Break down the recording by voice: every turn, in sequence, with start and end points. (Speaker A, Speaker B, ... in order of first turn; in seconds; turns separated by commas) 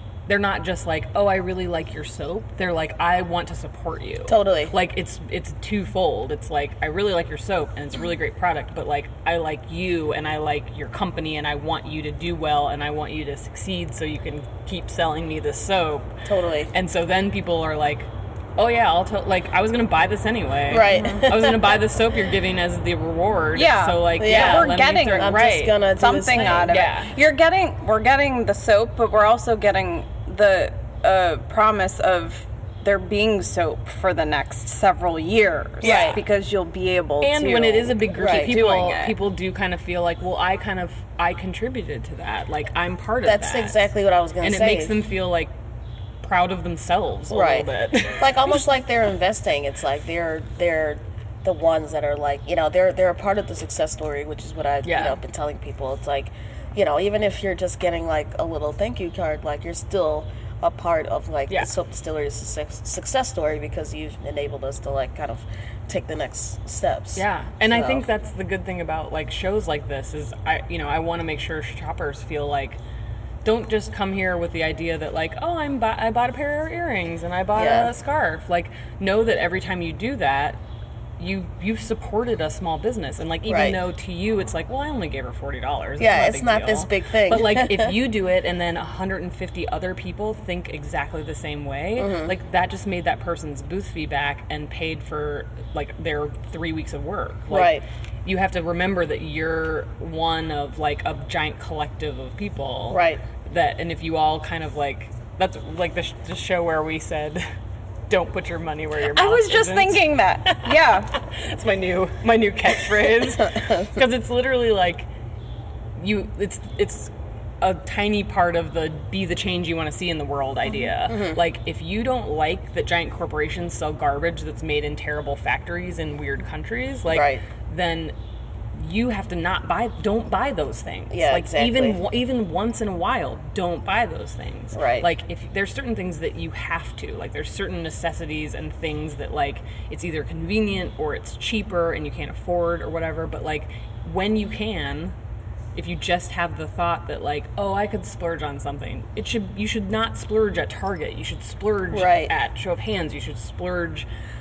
Speaker A: 0.3-16.1, Speaker B: 4.3-4.7, Speaker B: 16.2-16.7, Speaker A: 16.7-27.1, Speaker B: 20.7-21.8, Speaker C: 20.9-21.3, Speaker C: 23.5-25.4, Speaker B: 24.2-26.9, Speaker C: 26.0-39.1, Speaker A: 35.8-36.1, Speaker B: 35.8-36.2, Speaker A: 37.2-43.8, Speaker B: 38.1-38.5, Speaker B: 43.2-44.9, Speaker A: 44.4-45.5, Speaker A: 46.2-48.6, Speaker B: 47.3-47.7, Speaker B: 48.2-68.1, Speaker A: 54.8-55.2, Speaker A: 67.2-72.8, Speaker A: 73.4-80.6, Speaker B: 77.5-77.9, Speaker A: 81.2-107.4, Speaker B: 83.5-83.8, Speaker B: 86.0-88.0, Speaker B: 92.0-92.3, Speaker B: 97.5-97.8, Speaker B: 102.9-103.2, Speaker A: 108.1-115.1, Speaker C: 109.1-111.1, Speaker B: 112.9-113.9, Speaker A: 116.0-128.1, Speaker B: 121.0-121.4, Speaker B: 127.1-127.4, Speaker A: 128.7-145.1, Speaker B: 131.1-132.0, Speaker B: 134.7-135.1, Speaker A: 145.7-154.1, Speaker B: 151.9-152.3